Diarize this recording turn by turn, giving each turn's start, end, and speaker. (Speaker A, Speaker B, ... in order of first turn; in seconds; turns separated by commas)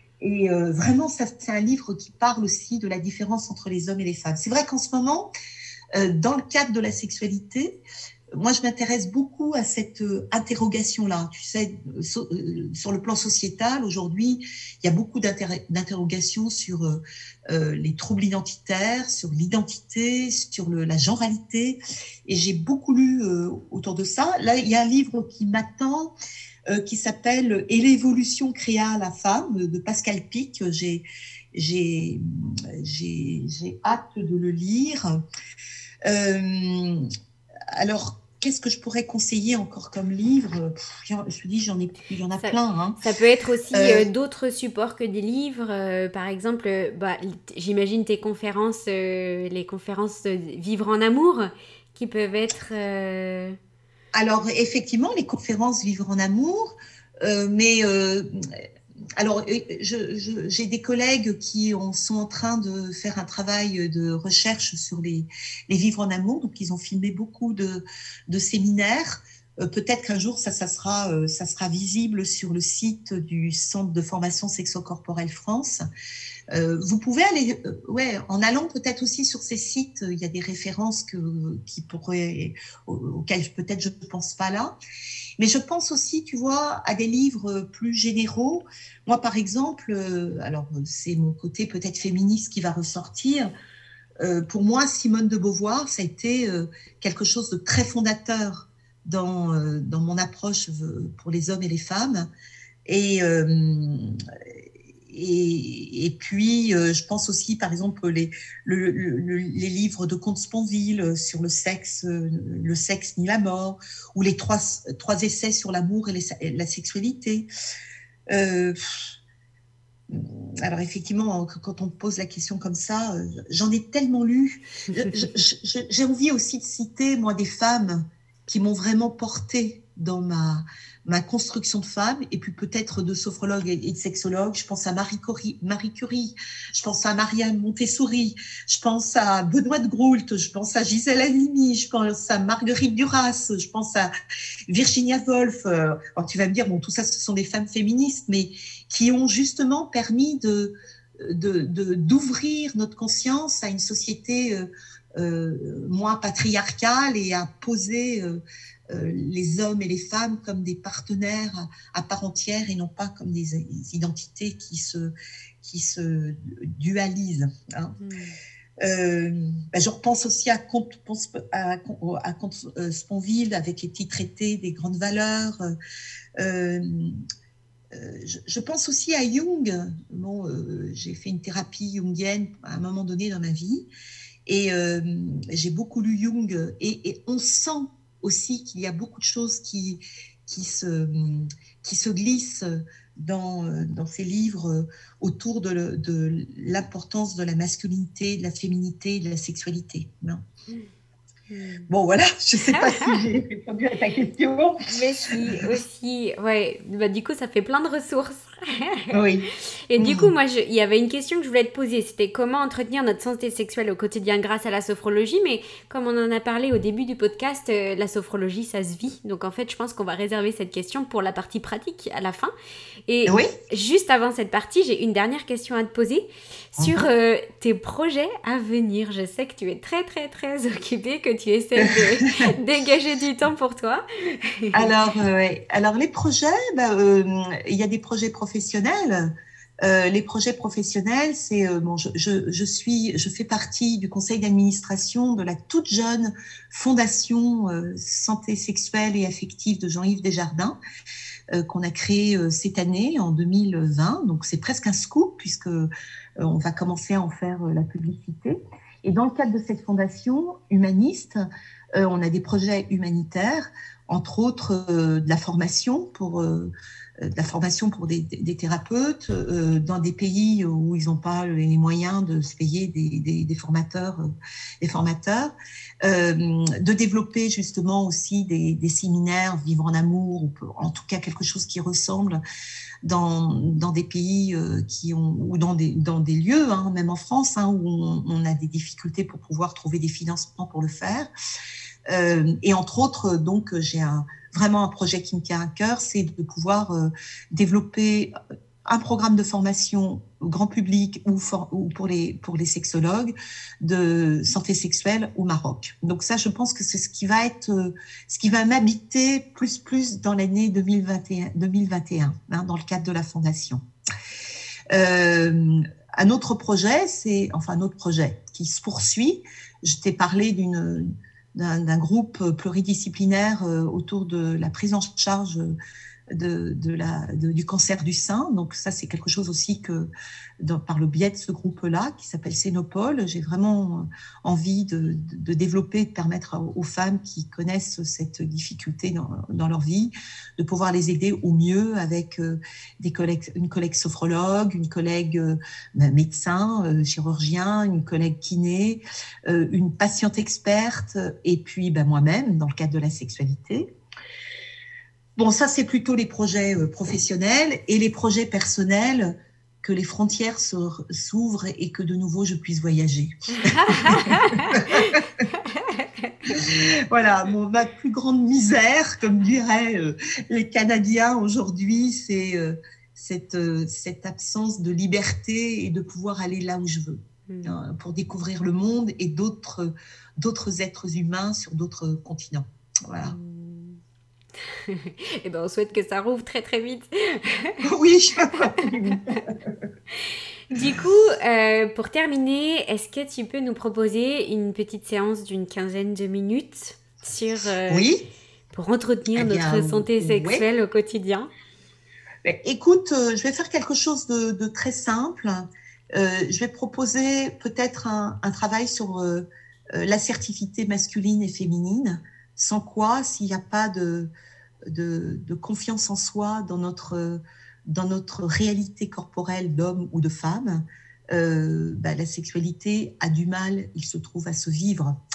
Speaker A: 0.2-5.3, Speaker A: 5.9-7.8, Speaker A: 8.3-26.1, Speaker A: 26.7-35.2, Speaker A: 36.1-37.1, Speaker A: 37.7-43.0, Speaker B: 42.4-53.6, Speaker A: 43.7-44.1, Speaker A: 54.1-58.6, Speaker A: 59.2-75.8, Speaker A: 76.5-84.7, Speaker A: 85.4-93.5, Speaker A: 94.2-102.3, Speaker A: 102.9-104.2, Speaker A: 105.1-117.5, Speaker A: 118.3-119.2, Speaker A: 120.1-144.1, Speaker A: 144.7-168.0, Speaker B: 168.0-168.4, Speaker A: 168.8-175.8, Speaker A: 176.4-177.2, Speaker A: 177.9-183.9, Speaker A: 184.5-200.4, Speaker B: 201.5-201.9, Speaker A: 201.9-205.7, Speaker B: 202.7-203.2, Speaker B: 204.9-222.5, Speaker A: 209.1-209.5, Speaker A: 210.0-210.3, Speaker B: 223.1-234.9, Speaker A: 223.3-223.5, Speaker A: 226.8-227.1, Speaker A: 231.8-232.4, Speaker A: 234.7-250.8, Speaker A: 251.5-282.4, Speaker A: 283.0-291.3, Speaker A: 292.1-298.3, Speaker A: 298.9-313.8, Speaker A: 314.9-325.8, Speaker A: 326.3-330.1, Speaker A: 330.6-353.9, Speaker A: 355.4-365.4, Speaker B: 363.6-366.4, Speaker A: 366.4-383.4, Speaker B: 377.5-377.8, Speaker B: 383.2-384.0, Speaker B: 384.6-387.9, Speaker A: 387.8-389.8, Speaker B: 388.5-389.4, Speaker B: 390.1-398.1, Speaker A: 390.7-391.0, Speaker A: 397.9-398.2, Speaker B: 398.7-401.5, Speaker A: 399.3-400.7, Speaker A: 402.4-414.3, Speaker A: 414.9-425.2